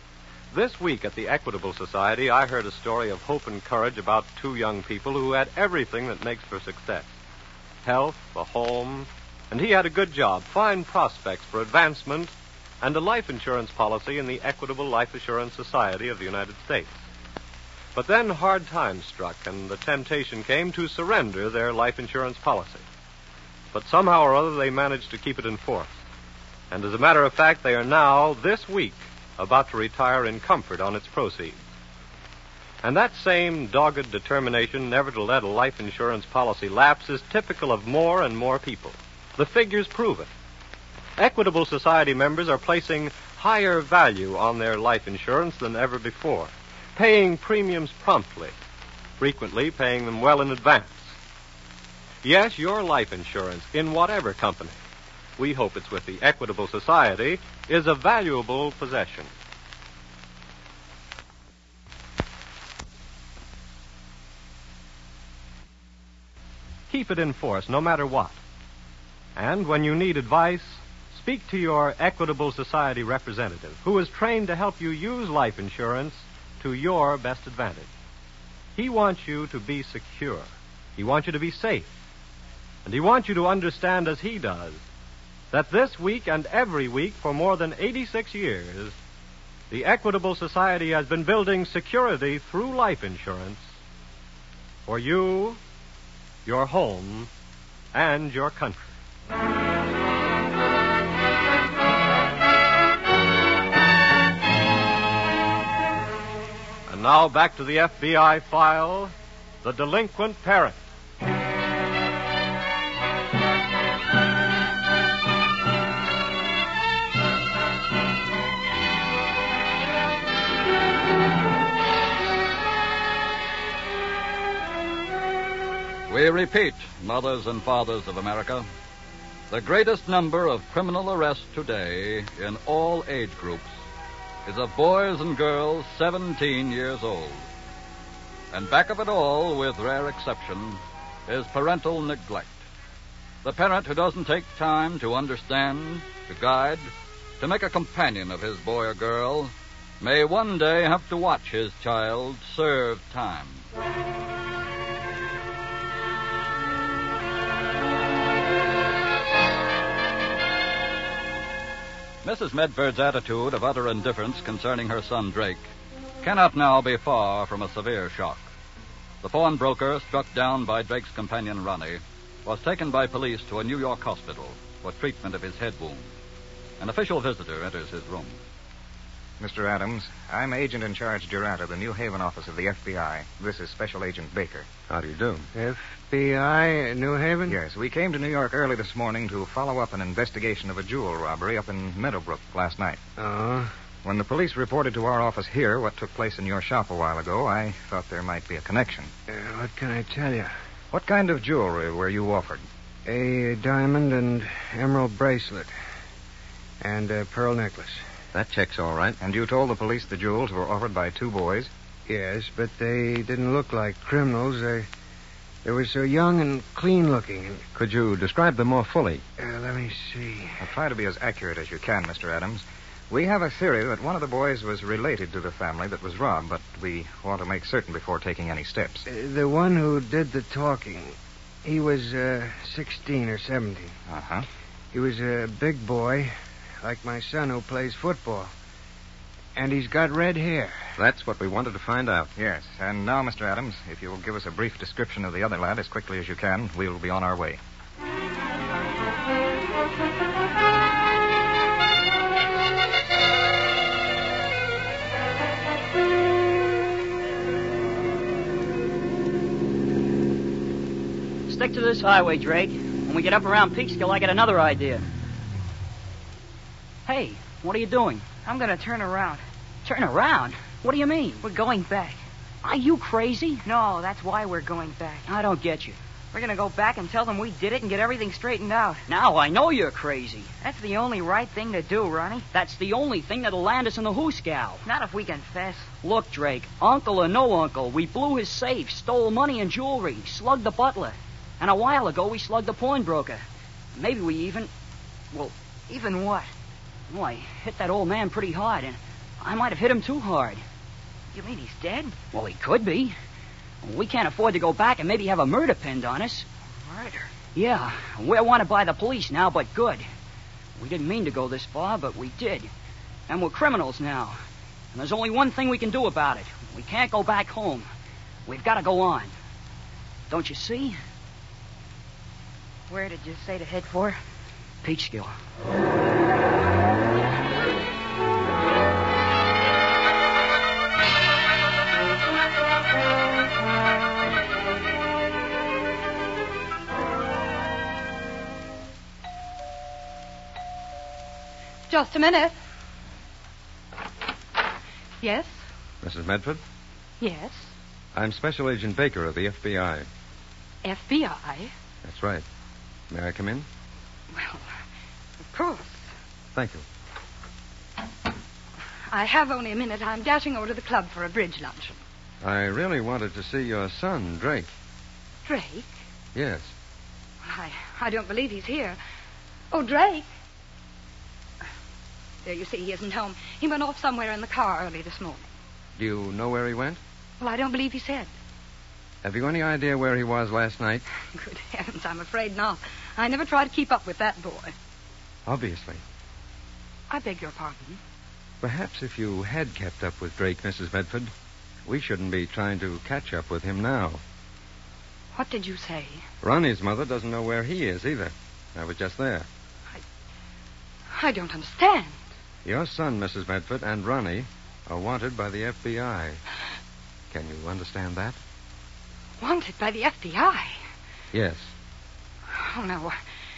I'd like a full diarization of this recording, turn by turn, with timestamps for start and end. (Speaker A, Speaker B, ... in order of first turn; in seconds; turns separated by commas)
Speaker A: 0.5-7.1, Speaker A: 7.8-17.0, Speaker A: 17.9-22.8, Speaker A: 23.7-25.9, Speaker A: 26.7-31.6, Speaker A: 32.8-40.3, Speaker A: 41.2-48.5, Speaker A: 49.2-51.1, Speaker A: 52.2-54.8, Speaker A: 55.4-59.3, Speaker A: 66.9-68.4, Speaker A: 69.4-77.9, Speaker A: 78.8-81.9, Speaker A: 82.8-84.8, Speaker A: 85.5-89.0, Speaker A: 89.7-93.7, Speaker A: 94.9-95.6, Speaker A: 96.5-97.3, Speaker A: 97.9-98.9, Speaker A: 106.9-110.8, Speaker B: 126.1-128.7, Speaker B: 129.5-133.7, Speaker B: 134.5-137.5, Speaker B: 138.5-142.6, Speaker B: 143.4-146.9, Speaker B: 147.4-153.6, Speaker B: 162.2-165.7, Speaker B: 166.2-168.4, Speaker B: 169.2-176.1, Speaker B: 176.8-178.4, Speaker C: 179.4-184.7, Speaker D: 184.9-185.5, Speaker E: 185.5-187.6, Speaker C: 187.5-193.0, Speaker E: 193.2-193.7, Speaker C: 194.0-199.1, Speaker E: 199.3-200.5, Speaker C: 200.9-202.7, Speaker E: 203.1-205.7, Speaker E: 206.8-208.0, Speaker D: 208.3-209.2, Speaker C: 209.2-211.7, Speaker E: 212.1-214.9, Speaker E: 215.6-217.6, Speaker D: 217.8-219.2, Speaker E: 219.4-220.6, Speaker C: 220.6-229.0, Speaker E: 229.1-234.0, Speaker C: 234.1-234.5, Speaker E: 234.9-238.5, Speaker E: 239.6-240.9, Speaker D: 241.0-242.3, Speaker C: 242.4-247.6, Speaker F: 261.5-265.1, Speaker F: 267.1-268.2, Speaker G: 268.4-269.4, Speaker F: 269.8-271.4, Speaker G: 271.4-272.2, Speaker F: 272.6-273.7, Speaker G: 273.6-275.3, Speaker F: 275.3-276.0, Speaker G: 276.3-279.0, Speaker F: 279.1-280.5, Speaker G: 280.6-282.5, Speaker F: 282.5-284.9, Speaker G: 284.9-285.9, Speaker F: 286.0-293.4, Speaker F: 294.0-294.7, Speaker G: 295.9-296.5, Speaker F: 297.1-300.6, Speaker G: 301.3-302.1, Speaker F: 302.3-303.1, Speaker F: 303.8-306.5, Speaker G: 306.7-307.3, Speaker F: 307.6-310.1, Speaker F: 310.8-312.7, Speaker F: 313.3-314.4, Speaker F: 314.9-317.9, Speaker F: 318.5-319.3, Speaker F: 320.3-321.0, Speaker G: 322.9-324.2, Speaker F: 324.8-325.4, Speaker H: 341.9-342.6, Speaker H: 345.2-345.6, Speaker D: 346.0-346.6, Speaker H: 347.2-347.7, Speaker D: 348.1-350.1, Speaker H: 350.8-351.7, Speaker D: 352.0-352.4, Speaker D: 353.1-353.7, Speaker H: 354.3-354.6, Speaker H: 355.5-356.0, Speaker D: 356.5-356.9, Speaker H: 359.1-362.0, Speaker D: 362.4-364.7, Speaker H: 365.5-365.9, Speaker D: 366.4-366.7, Speaker H: 367.4-369.0, Speaker H: 369.7-370.3, Speaker H: 372.4-375.5, Speaker D: 376.0-377.0, Speaker H: 377.4-378.3, Speaker D: 379.2-381.0, Speaker H: 381.3-384.7, Speaker D: 385.5-386.0, Speaker H: 387.1-388.0, Speaker D: 388.6-391.3, Speaker D: 391.9-394.2, Speaker H: 395.4-396.2, Speaker D: 396.4-399.5, Speaker H: 401.1-402.2, Speaker D: 402.6-406.4, Speaker D: 407.3-408.4, Speaker H: 409.4-410.8, Speaker D: 411.3-411.7, Speaker H: 412.5-413.2